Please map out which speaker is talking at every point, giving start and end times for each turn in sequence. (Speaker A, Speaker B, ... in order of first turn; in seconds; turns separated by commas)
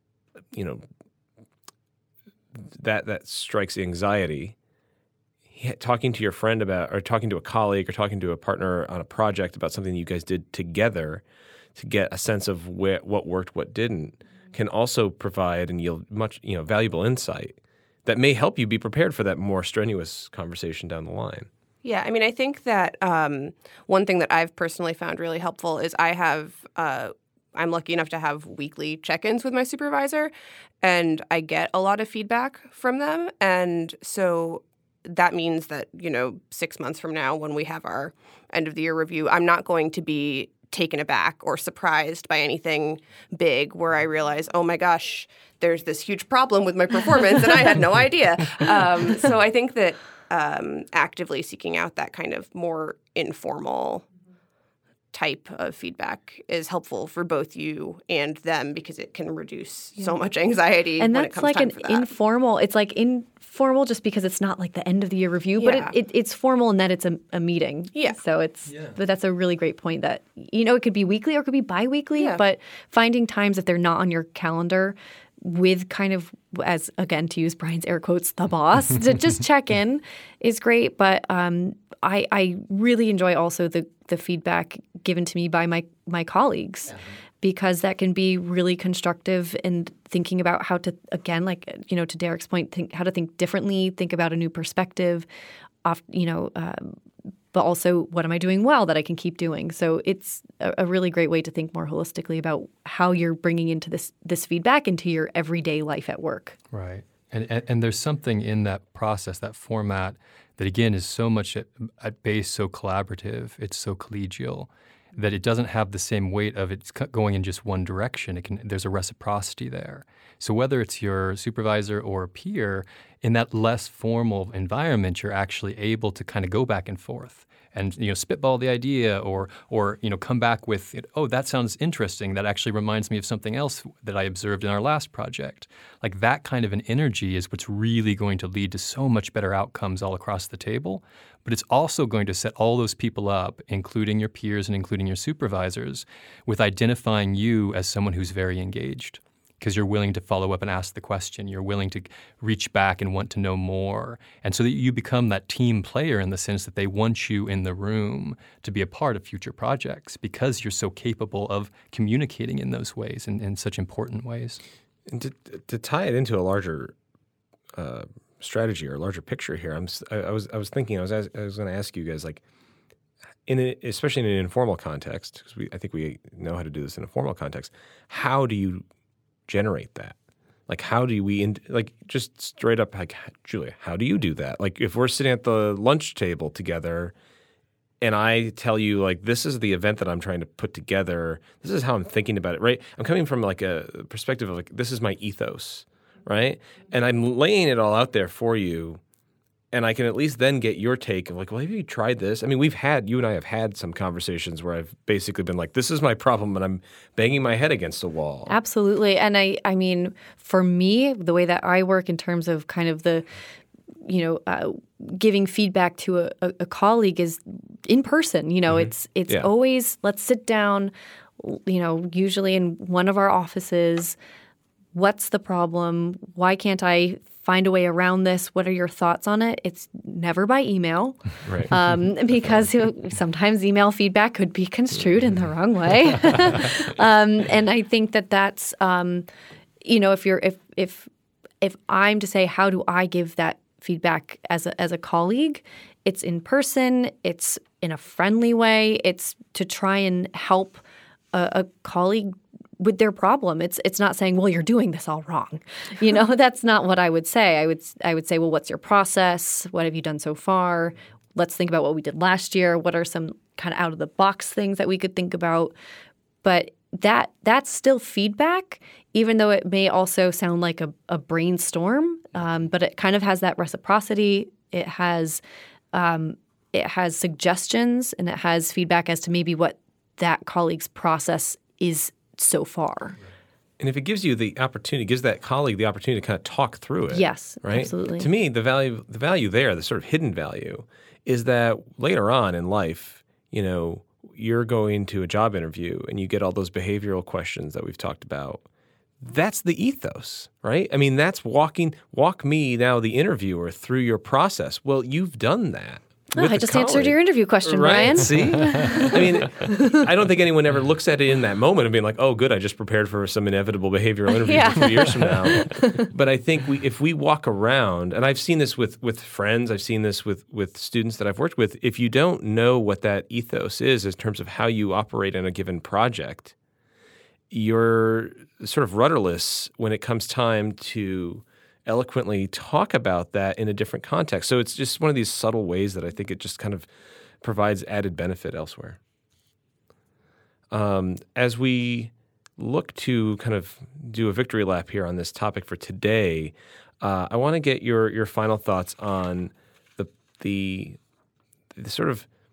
Speaker A: 0.5-0.8, Speaker A: 2.6-4.6, Speaker A: 5.5-11.2, Speaker A: 11.8-21.5, Speaker B: 21.8-54.1, Speaker B: 55.1-62.1, Speaker C: 61.0-95.3, Speaker B: 65.6-65.9, Speaker C: 95.8-97.0, Speaker C: 97.5-106.6, Speaker D: 106.7-164.6, Speaker A: 165.1-166.9, Speaker A: 167.8-172.4, Speaker A: 173.5-178.8, Speaker A: 179.5-180.2, Speaker A: 180.7-187.1, Speaker A: 188.0-199.0, Speaker A: 199.7-208.5, Speaker C: 208.5-213.3, Speaker C: 214.0-224.2, Speaker A: 218.7-219.5, Speaker C: 224.9-239.3, Speaker A: 231.5-231.7, Speaker C: 239.8-241.1, Speaker C: 241.6-250.8, Speaker C: 251.3-265.7, Speaker C: 266.4-275.4, Speaker C: 275.9-283.2, Speaker A: 283.8-298.6, Speaker C: 287.1-288.3, Speaker A: 299.2-326.5, Speaker C: 306.3-310.0, Speaker C: 314.4-316.1, Speaker A: 327.5-336.9, Speaker A: 337.4-339.0, Speaker A: 340.7-351.0, Speaker A: 351.7-352.3